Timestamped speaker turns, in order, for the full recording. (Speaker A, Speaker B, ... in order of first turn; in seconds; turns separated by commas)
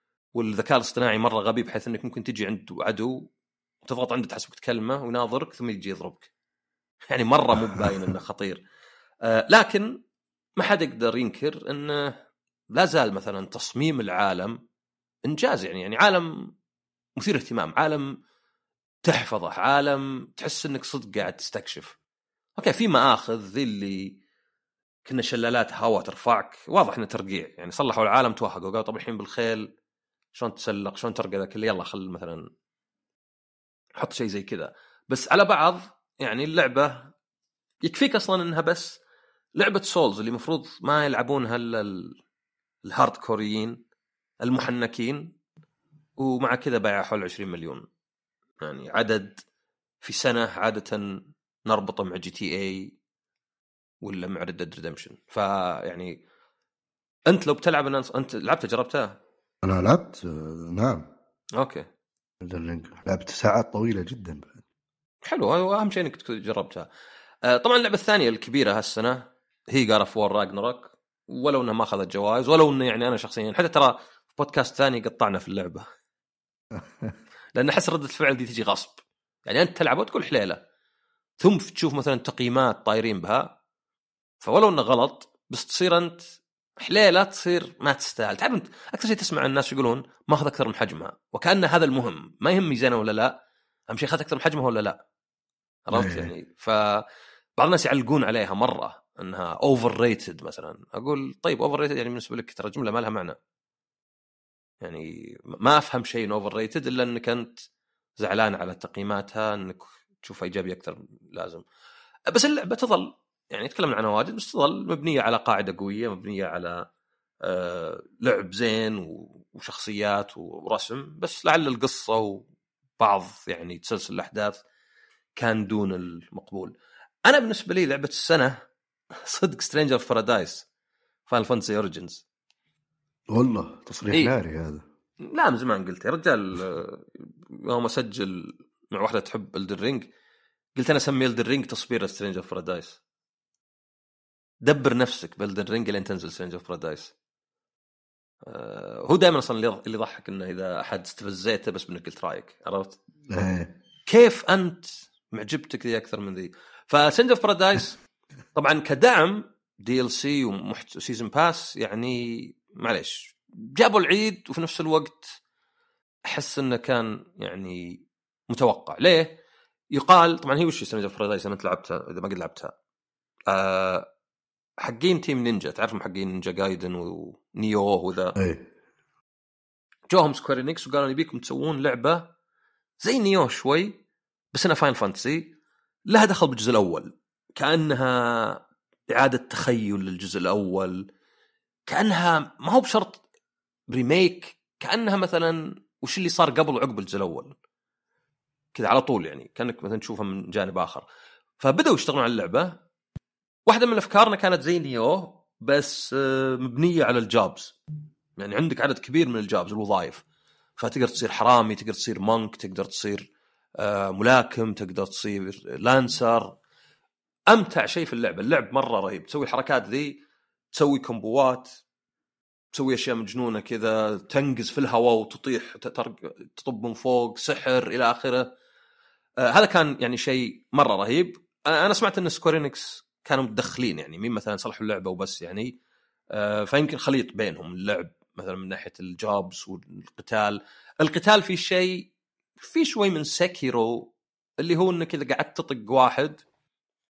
Speaker A: 0.3-3.3, Speaker A: 3.8-6.3, Speaker A: 7.1-8.6, Speaker A: 9.2-10.0, Speaker A: 10.6-12.2, Speaker A: 12.7-14.6, Speaker A: 15.2-16.5, Speaker A: 17.2-18.1, Speaker A: 19.0-22.0, Speaker A: 22.6-24.2, Speaker A: 25.0-29.7, Speaker A: 30.3-32.4, Speaker A: 34.0-37.1, Speaker A: 37.8-39.0, Speaker A: 39.5-42.2, Speaker A: 42.9-43.8, Speaker A: 44.4-45.3, Speaker A: 46.2-47.9, Speaker A: 48.6-49.4, Speaker A: 50.0-52.9, Speaker A: 54.0-56.2, Speaker A: 57.3-59.2, Speaker B: 59.6-61.1, Speaker A: 61.6-61.9, Speaker B: 62.4-64.6, Speaker A: 65.2-66.9, Speaker A: 67.4-75.8, Speaker B: 76.7-77.1, Speaker A: 77.5-80.6, Speaker A: 81.4-83.6, Speaker A: 84.4-93.3, Speaker A: 93.9-95.0, Speaker A: 95.9-97.0, Speaker B: 95.9-96.3, Speaker A: 97.6-103.4, Speaker A: 104.8-107.6, Speaker A: 108.2-111.6, Speaker A: 112.3-116.8, Speaker A: 117.4-122.5, Speaker A: 123.0-124.6, Speaker A: 125.4-126.7, Speaker A: 127.2-128.5, Speaker A: 129.2-130.7, Speaker A: 131.3-132.2, Speaker B: 133.3-134.8, Speaker A: 135.3-140.1, Speaker A: 140.7-143.0, Speaker A: 144.6-147.1, Speaker A: 148.4-153.0, Speaker B: 153.3-153.7, Speaker A: 154.1-158.0, Speaker A: 158.5-165.2, Speaker A: 166.3-169.4, Speaker A: 169.9-172.7, Speaker A: 173.5-174.1, Speaker A: 174.8-178.3, Speaker B: 178.4-178.7, Speaker A: 180.1-182.3, Speaker A: 183.0-183.9, Speaker A: 184.5-185.5, Speaker A: 186.1-191.0, Speaker A: 191.9-193.2, Speaker A: 193.9-197.5, Speaker A: 198.7-201.1, Speaker A: 201.6-202.8, Speaker A: 203.7-207.8, Speaker A: 208.4-210.2, Speaker A: 210.8-216.6, Speaker A: 217.5-220.2, Speaker A: 220.7-221.7, Speaker A: 222.7-228.5, Speaker A: 229.4-235.7, Speaker A: 236.3-246.4